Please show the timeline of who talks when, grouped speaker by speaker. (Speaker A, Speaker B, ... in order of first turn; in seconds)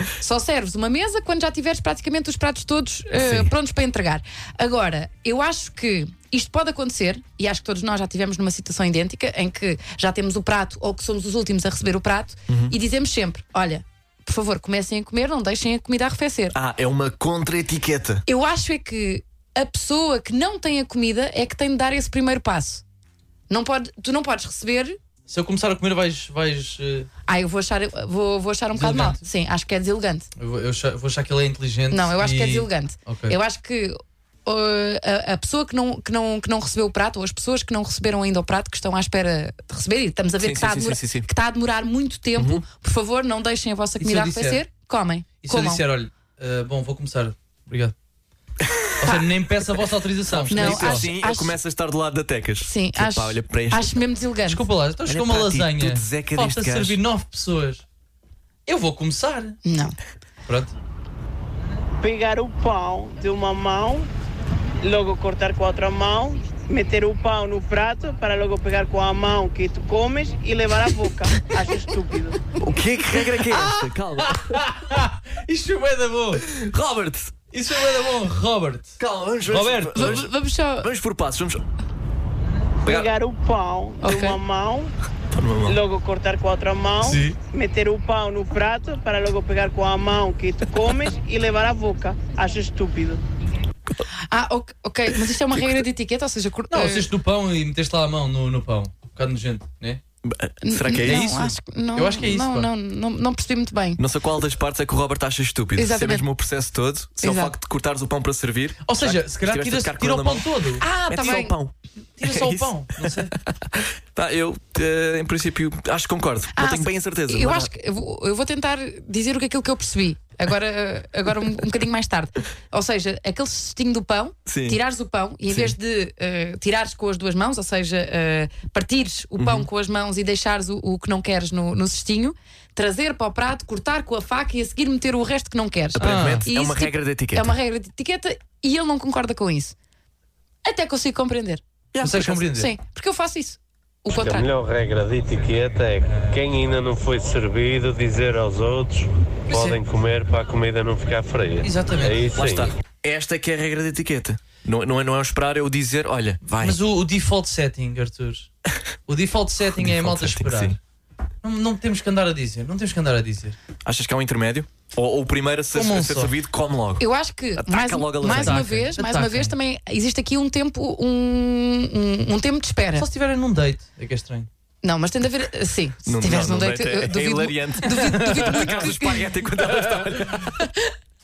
Speaker A: 0.2-16.5, 18.3-22.8, 23.5-25.0, 27.3-30.3, 31.9-45.8, 50.5-51.6, 52.6-54.6, 59.6-60.0, 79.9-80.9, 84.0-84.4, 94.3-97.1, 100.6-104.0, 105.8-106.2, 107.2-107.5, 110.8-111.5, 116.5-139.7, 140.6-141.6, 142.4-144.5, 167.0-173.1, 174.8-179.3, 180.5-180.9
Speaker B: 3.1-3.5, 12.5-12.7, 16.5-18.2, 40.4-41.3, 42.4-42.6, 48.6-49.0, 50.3-54.0, 55.0-57.0, 72.6-74.7, 76.4-77.4, 79.0-81.6, 82.8-83.1, 85.3-85.8, 100.2-101.3, 104.0-117.7, 124.5-124.8, 125.5-125.7, 129.4-129.7, 135.9-137.5, 141.9-142.5, 152.3-156.8, 159.7-160.8, 163.8-167.0, 167.6-168.7, 176.1-180.5
Speaker C: 25.3-27.1, 28.7-29.2, 30.4-33.4, 44.0-44.6, 45.4-47.9, 49.0-51.1, 54.5-57.8, 58.6-59.6, 60.5-60.7, 73.3-76.5, 77.5-79.0, 79.5-80.2, 82.4-82.8, 87.0-87.3, 96.7-100.0, 101.0-102.7, 108.8-110.8, 112.2-113.3, 136.0-136.5, 142.0-142.7, 149.5-149.8, 151.6-152.2, 156.6-158.5, 159.1-160.8, 161.4-163.6, 165.7-166.3, 168.2-169.5, 172.9-174.5
Speaker D: 62.0-64.1, 64.8-72.4, 82.8-84.9, 85.6-93.2
Speaker E: 144.1-152.7